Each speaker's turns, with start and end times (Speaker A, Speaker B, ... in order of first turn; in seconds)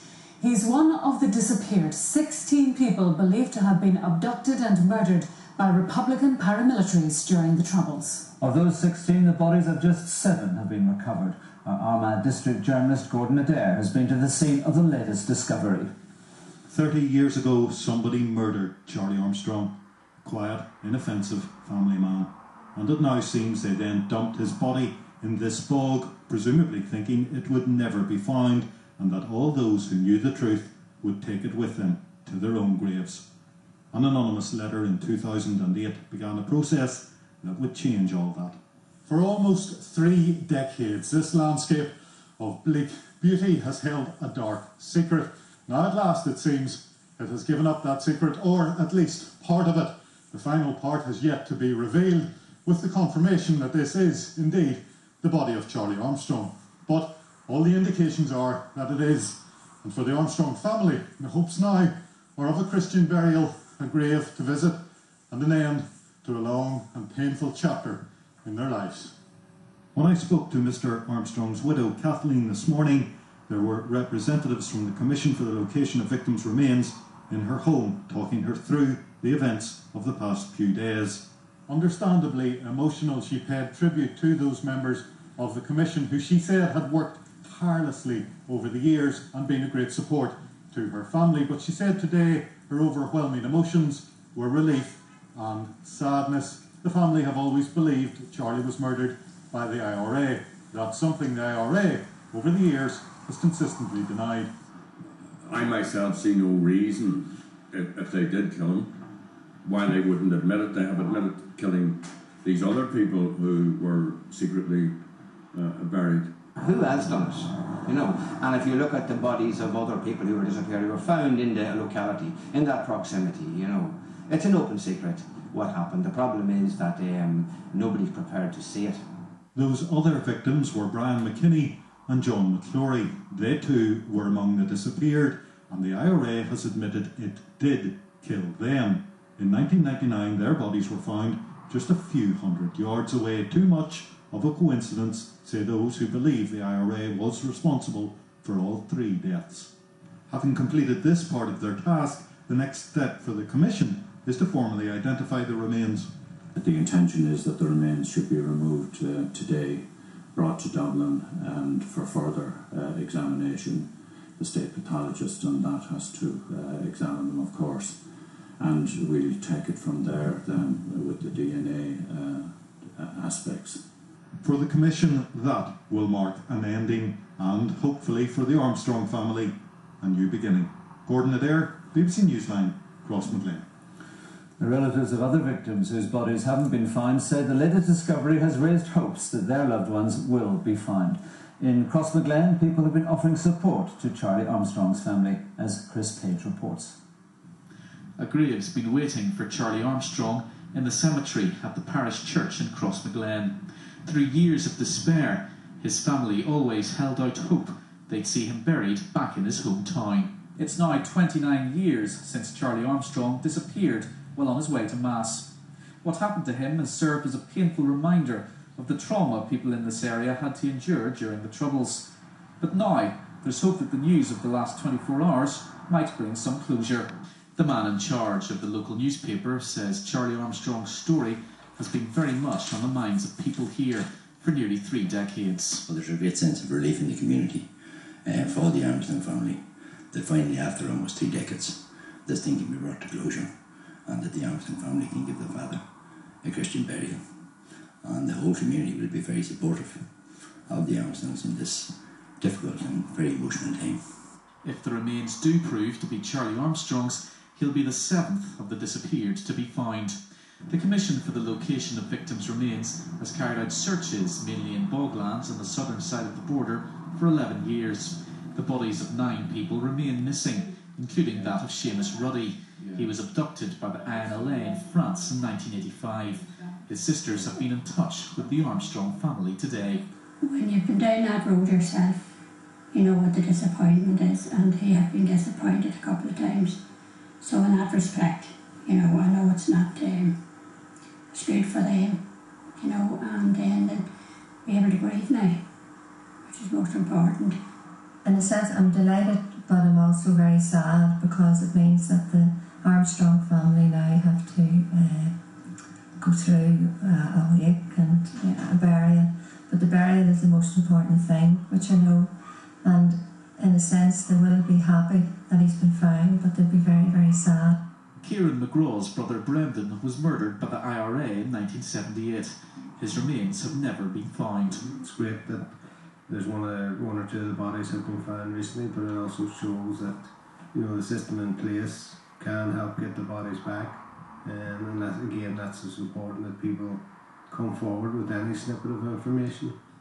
Speaker A: 0.4-8.2
Speaker B: 8.4-15.9, 184.6-196.9
Speaker C: 16.7-19.7, 20.2-33.2, 33.9-38.6, 69.9-81.2, 129.6-149.7, 150.3-156.1, 174.4-183.6
Speaker D: 39.1-41.9, 42.4-59.3, 59.9-64.8, 65.3-69.1, 81.7-84.8, 85.4-94.9, 95.4-99.0, 99.5-100.6, 101.2-104.1
Speaker E: 105.5-108.9, 109.7-114.9, 115.5-116.3
Speaker F: 116.6-129.1
Speaker G: 156.6-168.0, 168.6-173.8
Speaker H: 198.2-215.5, 216.0-222.1, 222.6-235.8, 254.6-260.2, 260.7-280.0, 318.2-324.8
Speaker I: 235.9-237.7, 238.2-243.5, 244.1-245.8, 246.4-247.2, 248.0-250.1, 250.7-254.0
Speaker J: 280.4-282.3, 282.9-286.8, 287.4-290.4, 291.3-292.2, 292.8-294.1, 294.6-295.7, 296.5-297.6
Speaker K: 298.2-305.3, 306.2-312.3, 312.8-317.8
Speaker L: 325.0-339.8